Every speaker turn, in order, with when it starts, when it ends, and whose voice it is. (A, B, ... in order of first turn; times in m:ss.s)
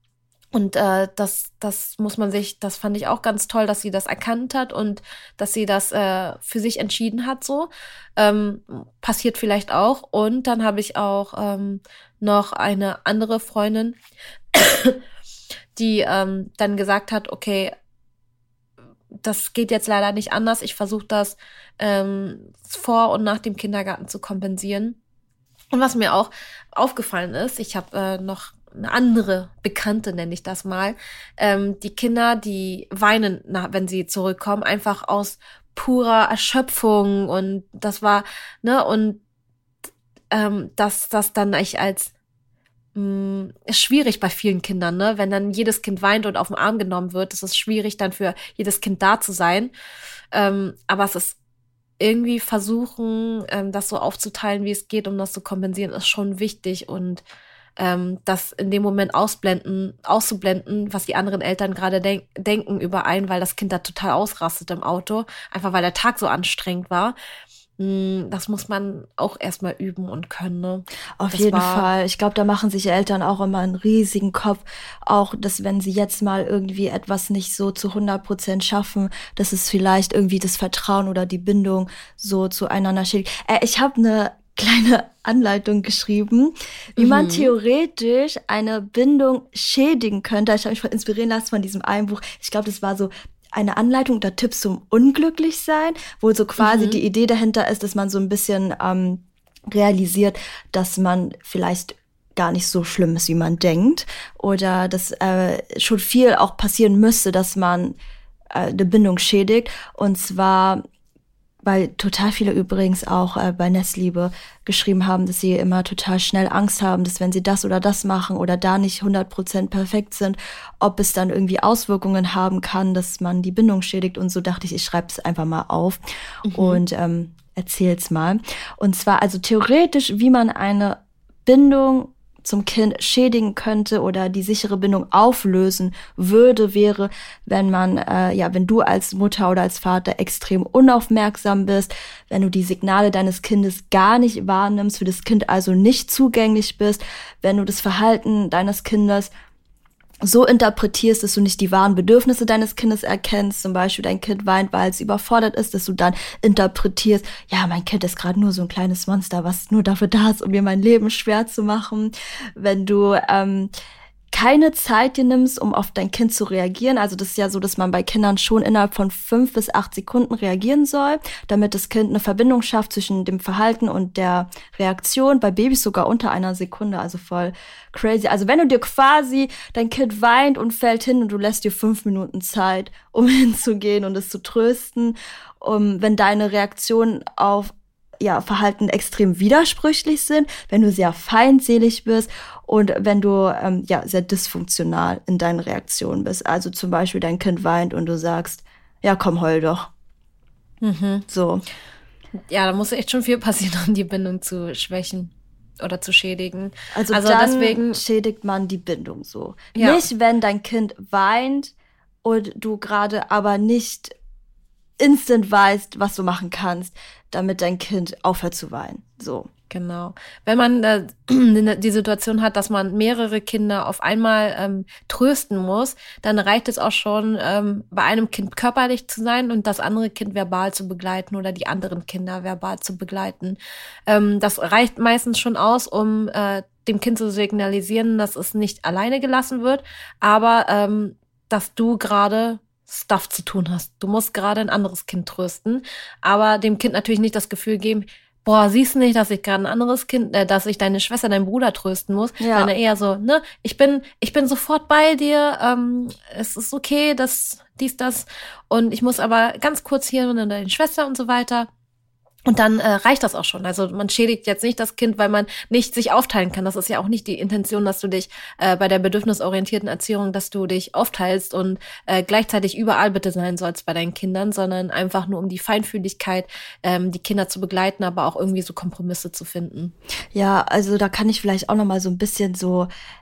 0:00.5-0:14.0 A
0:14.5-0:15.0 A
0:15.8-0:17.7 A
0:19.2-0:25.0 A
0:25.7-0:39.2 A
0:40.3-0:42.1 A
0:42.9-0:49.7 A
0:50.3-0:51.4 A
0:52.0-0:57.2 A
0:57.8-1:07.1 A
1:07.8-1:11.9 A
1:11.2-1:48.0 B
1:27.0-1:27.5 A
1:36.6-1:37.0 A
1:48.5-1:50.8 B
1:51.6-2:29.3 B
2:06.4-2:06.8 A
2:30.2-2:43.7 B
2:44.3-3:19.9 B
3:20.8-3:21.2 A
3:21.3-3:21.6 B
3:22.5-3:28.0 A
3:26.9-3:31.7 B
3:29.7-3:30.0 A
3:32.2-3:34.1 B
3:35.0-3:39.5 B
3:39.7-4:21.7 A
4:12.4-4:12.7 B
4:22.5-4:39.9 A
4:40.3-4:42.9 B